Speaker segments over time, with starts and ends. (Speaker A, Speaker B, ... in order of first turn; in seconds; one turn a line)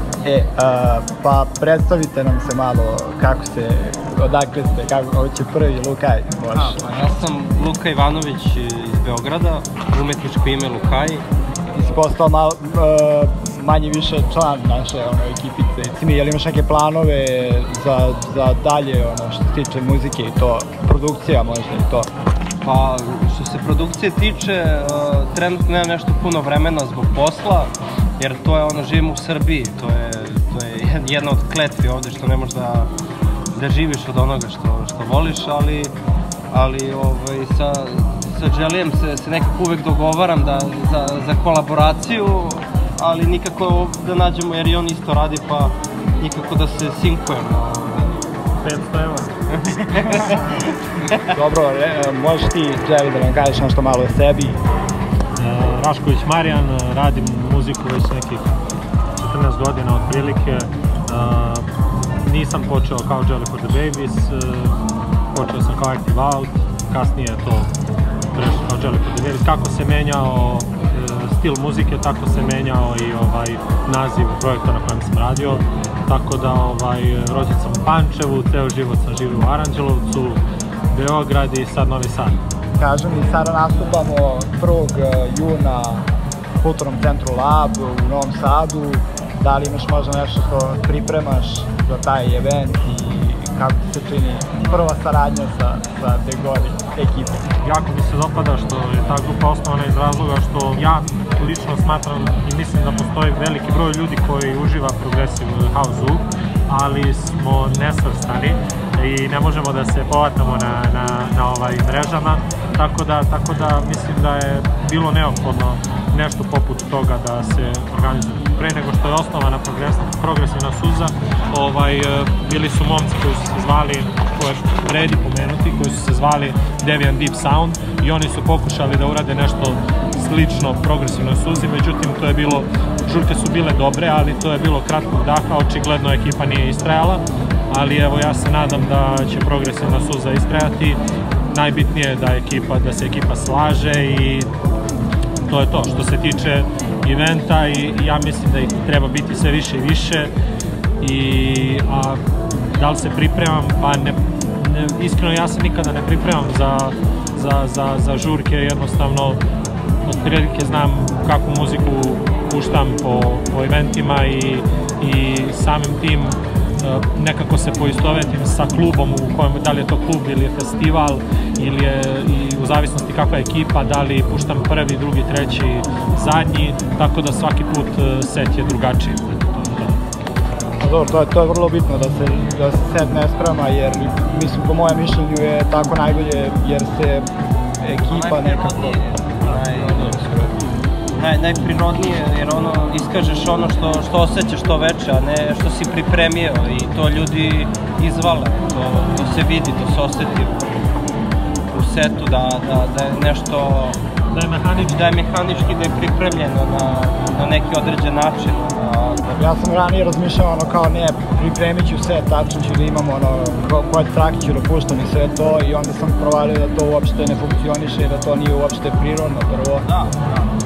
Speaker A: 0.2-6.9
Speaker B: 6.5-11.2
Speaker A: 11.7-22.1
Speaker B: 22.6-32.9
Speaker B: 33.5-35.9
Speaker B: 36.5-48.2
Speaker C: 48.6-49.4
Speaker B: 49.5-50.6
Speaker A: 51.3-54.6
Speaker C: 55.4-58.5
Speaker C: 59.2-61.7
Speaker C: 62.2-64.8
Speaker C: 65.3-67.7
Speaker C: 68.3-82.4
Speaker A: 82.8-86.1
Speaker A: 86.6-97.5
Speaker C: 97.6-141.0
Speaker C: 141.5-144.5
Speaker C: 145.5-150.3
Speaker C: 151.0-152.2
Speaker C: 152.8-159.4
Speaker C: 160.1-180.0
Speaker A: 180.8-187.3
Speaker A: 187.8-190.5
Speaker B: 188.1-190.6
Speaker B: 191.2-200.9
Speaker B: 201.7-204.0
Speaker C: 204.3-205.0
Speaker B: 204.8-209.4
Speaker A: 209.4-219.9
Speaker B: 219.8-220.5